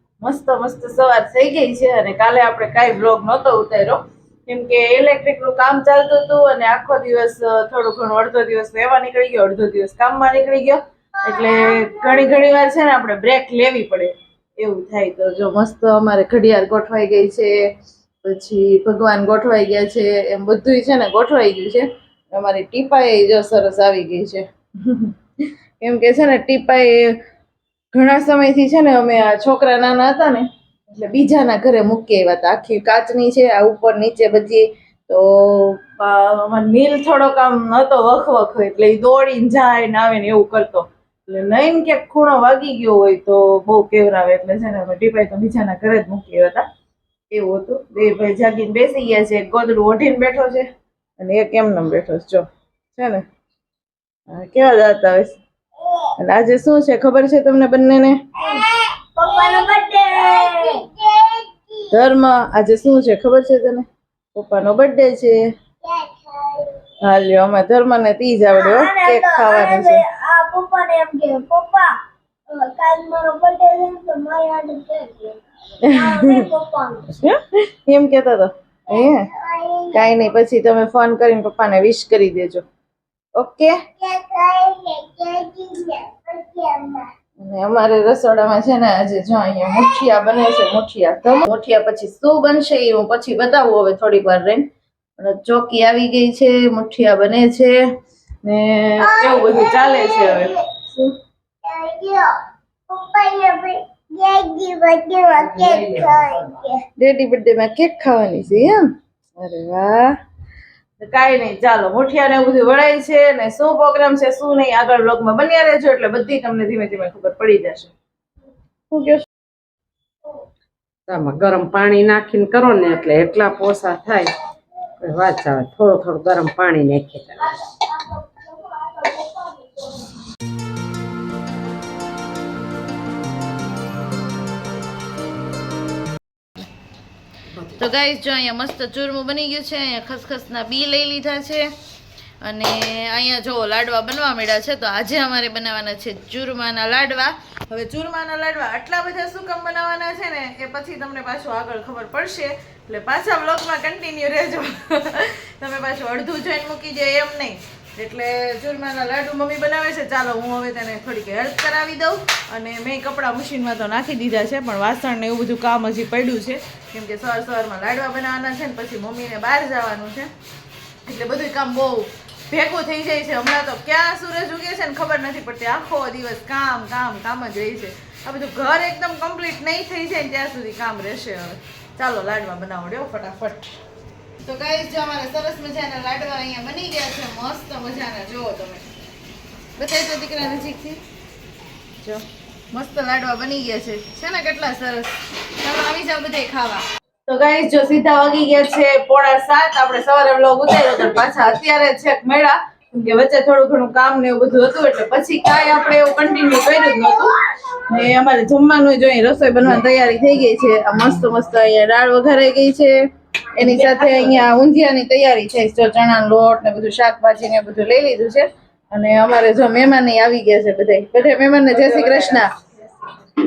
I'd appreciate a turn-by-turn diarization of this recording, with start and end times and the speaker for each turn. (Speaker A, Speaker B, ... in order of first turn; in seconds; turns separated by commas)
Speaker A: 0.2-17.5, Speaker A: 18.2-25.1, Speaker A: 25.8-27.1, Speaker A: 27.9-46.6, Speaker A: 47.3-50.7, Speaker A: 51.2-53.2, Speaker A: 54.3-55.4, Speaker A: 56.2-58.2, Speaker B: 58.4-61.9, Speaker A: 61.9-65.4, Speaker B: 65.8-66.8, Speaker A: 67.0-70.0, Speaker B: 68.5-71.9, Speaker B: 72.5-77.2, Speaker A: 75.9-76.4, Speaker A: 77.2-79.3, Speaker B: 78.9-80.0, Speaker A: 79.9-82.6, Speaker A: 83.4-83.8, Speaker B: 84.0-87.1, Speaker A: 87.4-94.7, Speaker A: 95.2-97.8, Speaker A: 98.4-101.1, Speaker B: 99.0-100.6, Speaker B: 101.6-102.3, Speaker B: 102.9-106.8, Speaker A: 107.0-108.8, Speaker A: 109.4-110.1, Speaker A: 111.0-117.9, Speaker A: 118.9-119.2, Speaker C: 121.1-124.3, Speaker C: 125.0-127.5, Speaker B: 128.7-129.4, Speaker A: 137.6-141.7, Speaker A: 142.4-170.3, Speaker A: 171.0-183.7, Speaker A: 184.4-188.8, Speaker A: 189.8-191.0, Speaker A: 192.0-213.0, Speaker A: 213.5-222.5